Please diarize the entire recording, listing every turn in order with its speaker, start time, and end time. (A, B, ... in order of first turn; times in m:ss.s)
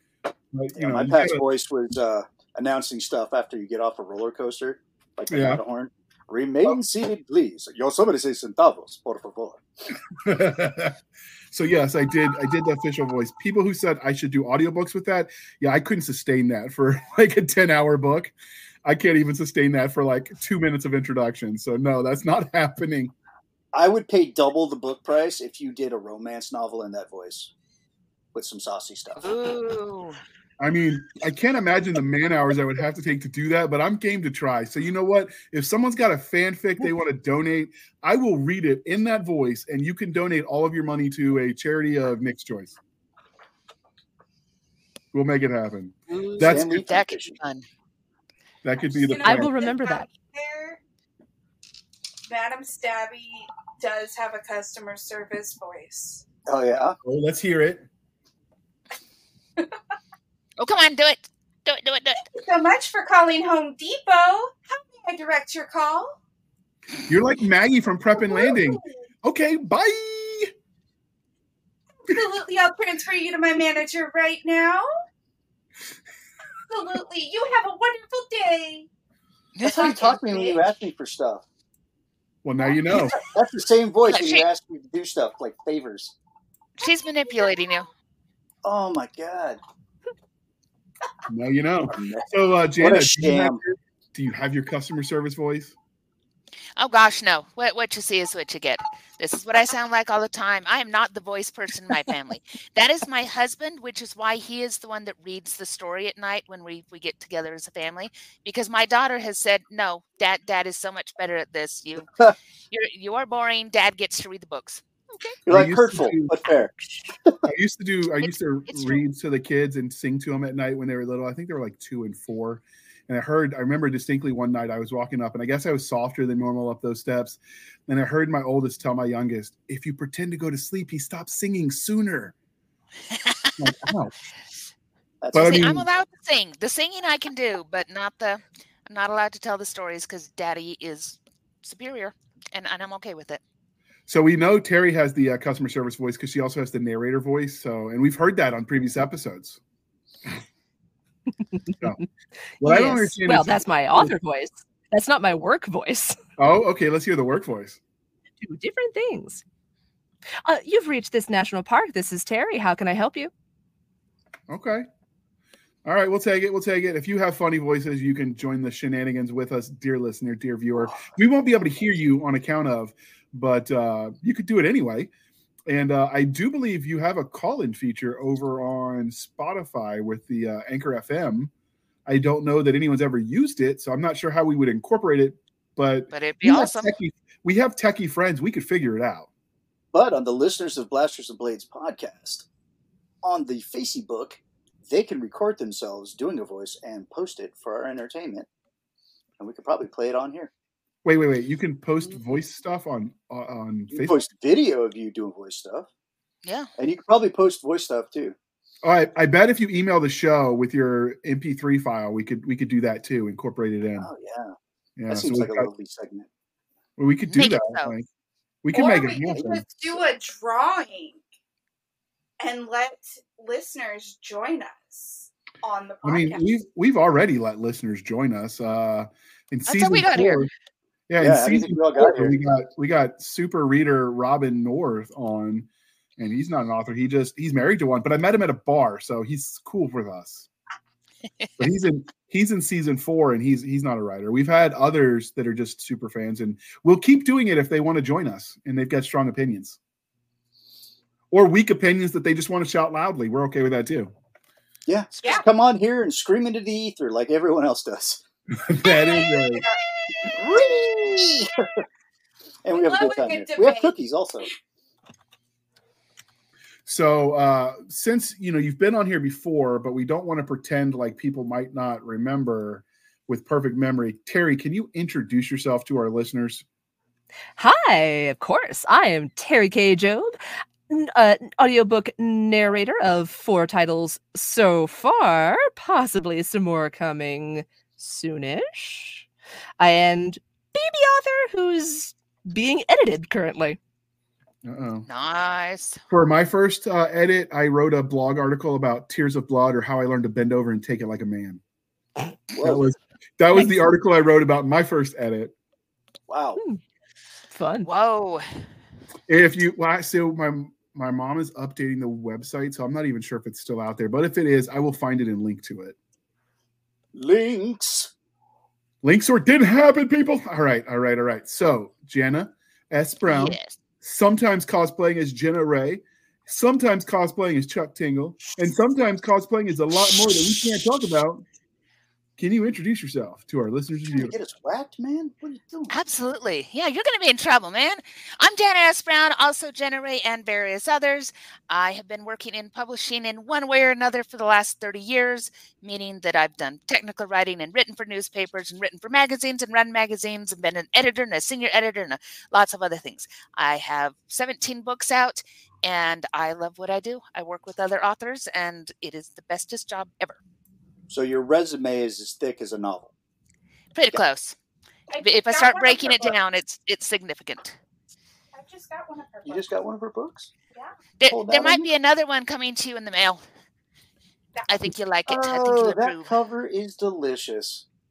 0:00.5-0:01.4 A
0:00.7-0:09.6 B
0:05.3-0:05.6 A
0:10.2-0:11.0 A
0:11.5-0:18.3 A
0:18.8-0:23.1 A
0:23.7-0:27.5 B
0:28.3-0:29.5 B
0:29.2-0:30.2 C
0:30.6-0:42.8 A
0:45.1-0:46.8 A
0:46.1-0:47.6 C
0:46.4-0:47.3 B
0:48.6-0:49.6 A
0:49.0-0:50.8 D
0:49.1-0:50.1 E
0:52.3-0:56.2 D
0:56.4-0:57.0 B
0:57.0-0:57.8 A
1:00.6-1:02.2 C
1:02.3-1:06.1 D
1:07.1-1:10.5 A
1:08.2-1:08.9 D
1:12.1-1:14.8 D
1:16.7-1:18.9 D
1:19.6-1:19.8 C
1:19.6-1:21.4 B
1:19.7-1:20.6 D
1:22.4-1:23.2 A
1:23.2-1:26.1 B
1:24.1-1:24.4 C
1:26.8-1:27.9 C
1:26.8-1:27.8 D
1:28.6-1:29.6 B
1:31.3-1:35.7 A
1:31.9-1:32.3 B
1:32.8-1:33.6 B
1:36.8-1:52.1 C
1:52.7-1:55.4 C
1:55.4-1:57.4 B
1:55.5-1:56.3 A
1:57.5-2:12.3 A
1:58.2-1:59.0 C
2:13.1-2:13.4 C
2:13.6-2:14.1 A
2:15.2-2:15.8 B
2:15.3-2:15.8 A
2:15.4-2:23.4 C
2:24.1-2:29.6 A
2:32.6-2:34.1 A
2:32.6-2:36.2 E
2:36.4-2:37.8 A
2:38.4-2:39.4 E
2:40.4-2:43.3 E
2:44.5-2:44.8 A
2:45.8-2:55.1 A
2:55.7-3:01.5 A
3:02.1-3:09.3 A
3:06.1-3:06.9 C
3:09.9-3:12.5 B
3:13.2-3:18.5 B
3:19.4-3:20.5 B
3:21.0-3:24.2 A
3:23.9-3:25.9 B
3:26.8-3:28.4 B
3:28.8-3:34.1 A
3:34.0-3:34.5 B
3:35.0-3:35.7 A
3:35.1-3:36.3 B
3:37.0-3:38.1 A
3:37.3-3:37.9 C
3:38.6-3:39.7 A
3:38.7-3:41.2 D
3:42.4-3:46.4 D
3:46.0-3:50.5 A
3:49.7-3:50.5 C
3:51.1-4:00.5 A
3:51.2-3:52.4 B
4:01.6-4:09.8 A
4:11.3-4:14.1 A
4:14.8-4:18.2 B
4:18.5-4:19.7 A
4:18.8-4:20.4 D
4:20.3-4:21.8 B
4:22.6-4:24.5 B
4:22.7-4:23.9 D
4:26.9-4:36.6 A
4:37.6-4:49.3 E
4:49.8-4:53.8 E
4:54.6-4:55.1 A
4:55.1-4:56.0 C
4:56.1-5:01.6 A
5:02.5-5:02.8 B
5:02.6-5:05.5 A
5:06.3-5:06.6 B
5:07.5-5:07.9 E
5:07.8-5:08.5 C
5:09.3-5:16.0 A
5:17.1-5:18.1 B
5:19.0-5:31.4 A
5:23.3-5:23.7 C
5:32.4-5:34.4 A
5:34.1-5:36.0 B
5:35.9-6:00.4 C
6:01.1-6:03.1 B
6:03.9-6:04.6 C
6:05.1-6:06.4 D
6:05.2-6:07.8 C
6:08.5-6:09.7 D
6:09.4-6:10.5 B
6:11.2-6:13.4 C
6:11.3-6:11.9 B
6:14.6-6:14.9 D
6:14.7-6:16.3 C
6:15.3-6:17.8 B